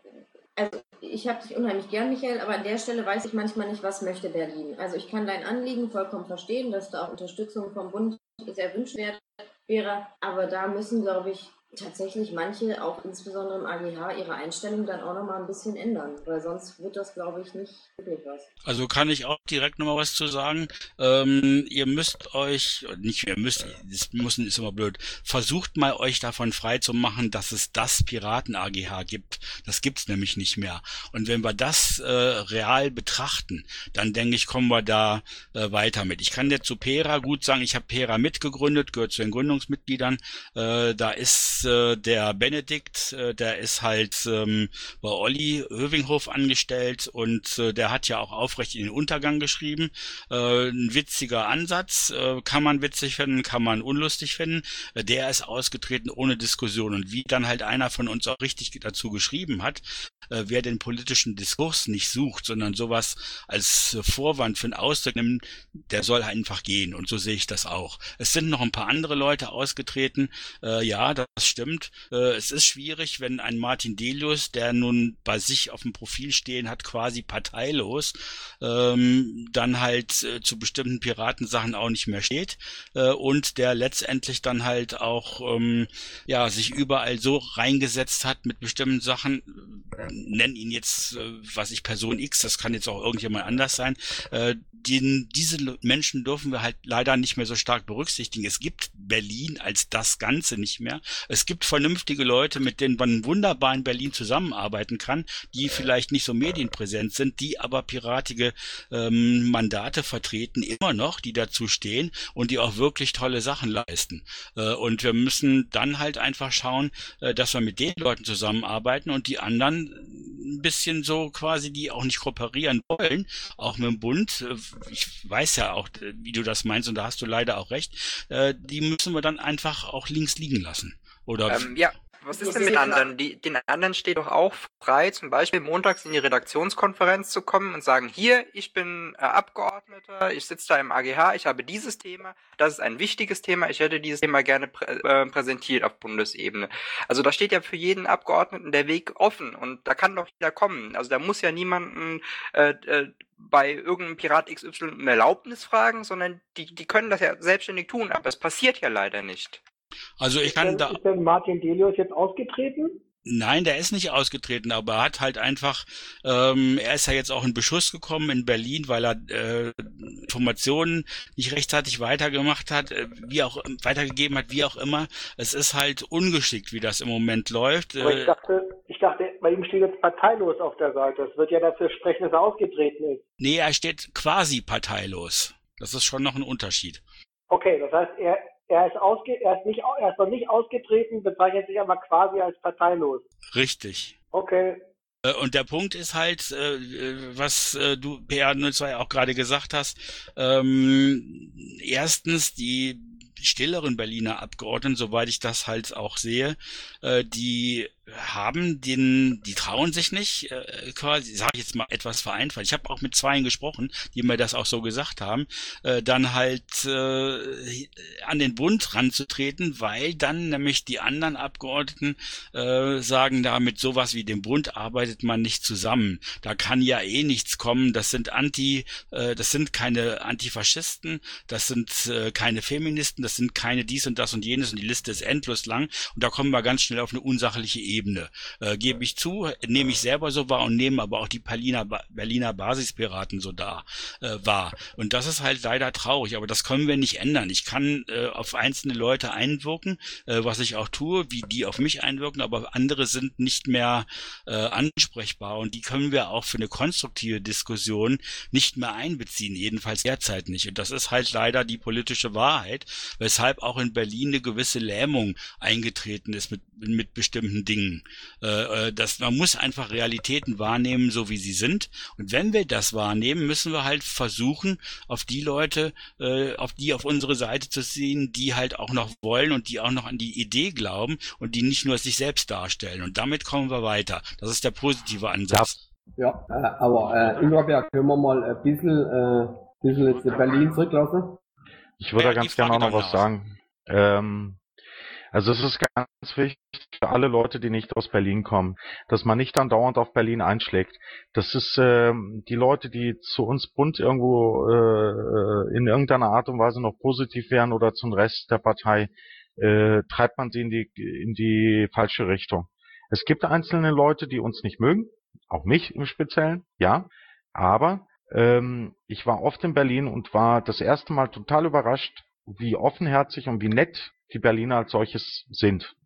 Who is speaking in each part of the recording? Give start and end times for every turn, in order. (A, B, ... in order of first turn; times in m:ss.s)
0:00.6-0:18.5 A
0:18.6-2:11.8 B
2:11.5-2:39.6 C
2:12.3-2:13.0 D
2:40.2-2:41.0 B
2:40.5-2:43.0 D
2:43.3-2:58.3 B
2:58.0-3:03.2 D
3:03.4-3:07.0 B
3:07.5-3:13.2 D
3:13.5-3:14.2 B
3:14.3-3:14.8 D
3:15.3-4:45.7 B
4:45.5-4:45.8 E
4:46.2-4:51.4 F
4:52.0-4:54.6 E
4:52.2-4:53.3 B
4:55.3-5:25.9 E